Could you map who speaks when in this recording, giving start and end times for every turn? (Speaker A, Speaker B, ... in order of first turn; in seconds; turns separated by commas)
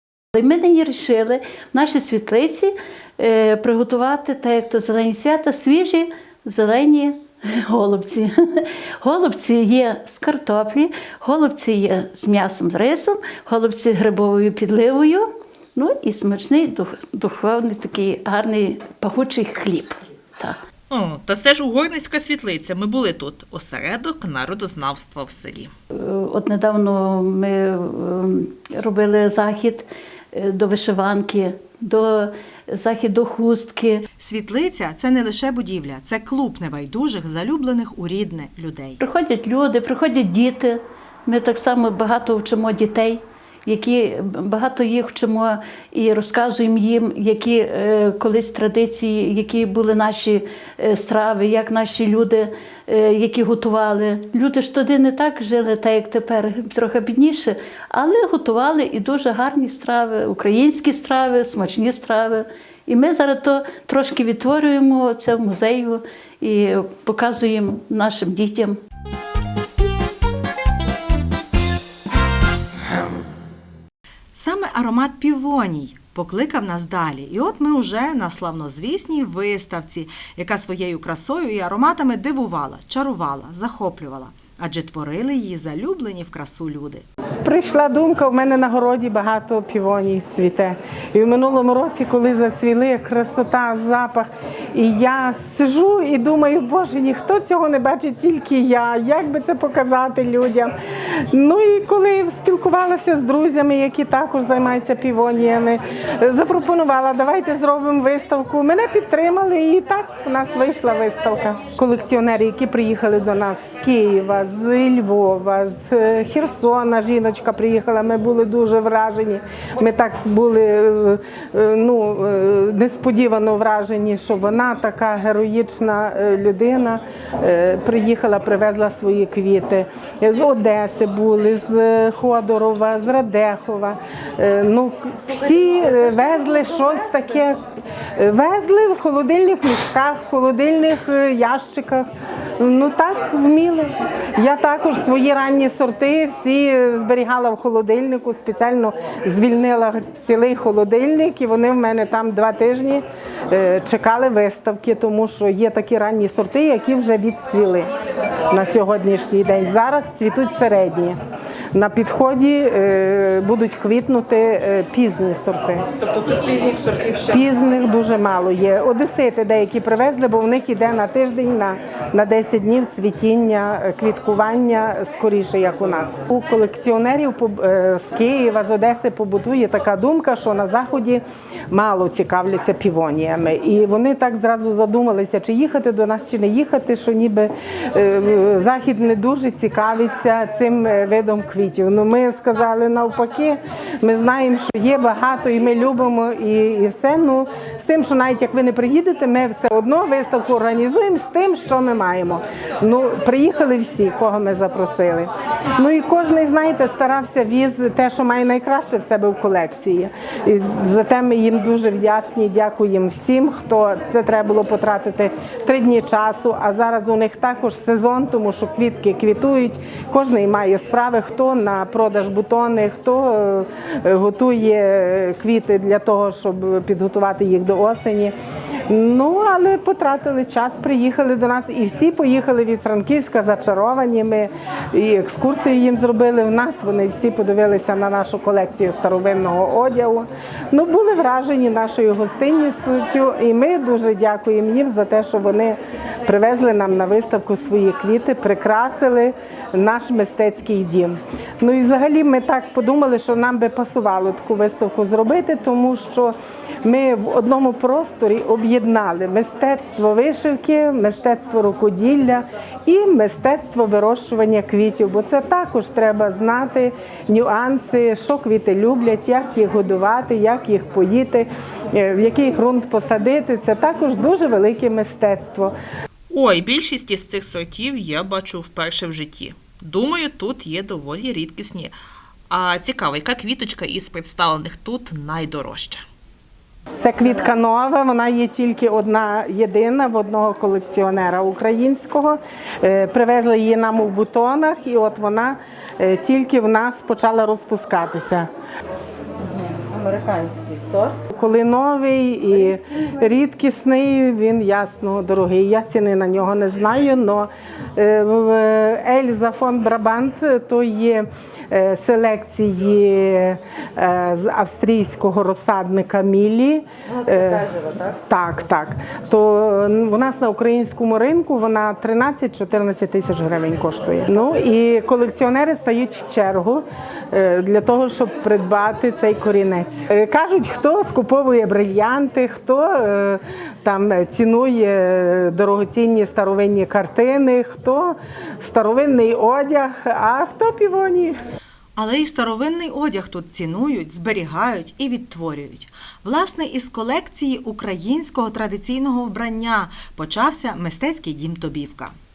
Speaker A: 0.3-20.6, Speaker B: 20.9-25.7, Speaker A: 25.9-34.0, Speaker C: 34.2-39.0, Speaker A: 39.0-68.8, Speaker C: 74.3-87.0, Speaker D: 87.4-100.7, Speaker D: 101.3-137.6, Speaker D: 138.2-157.9, Speaker D: 158.5-161.2, Speaker D: 161.7-165.8, Speaker E: 166.1-167.2, Speaker D: 167.2-228.3, Speaker D: 228.9-275.7, Speaker B: 276.3-281.9, Speaker B: 282.5-286.0, Speaker D: 287.0-298.5, Speaker E: 299.6-301.1, Speaker D: 301.3-317.6, Speaker E: 317.1-318.2, Speaker D: 318.3-341.4, Speaker C: 341.9-352.1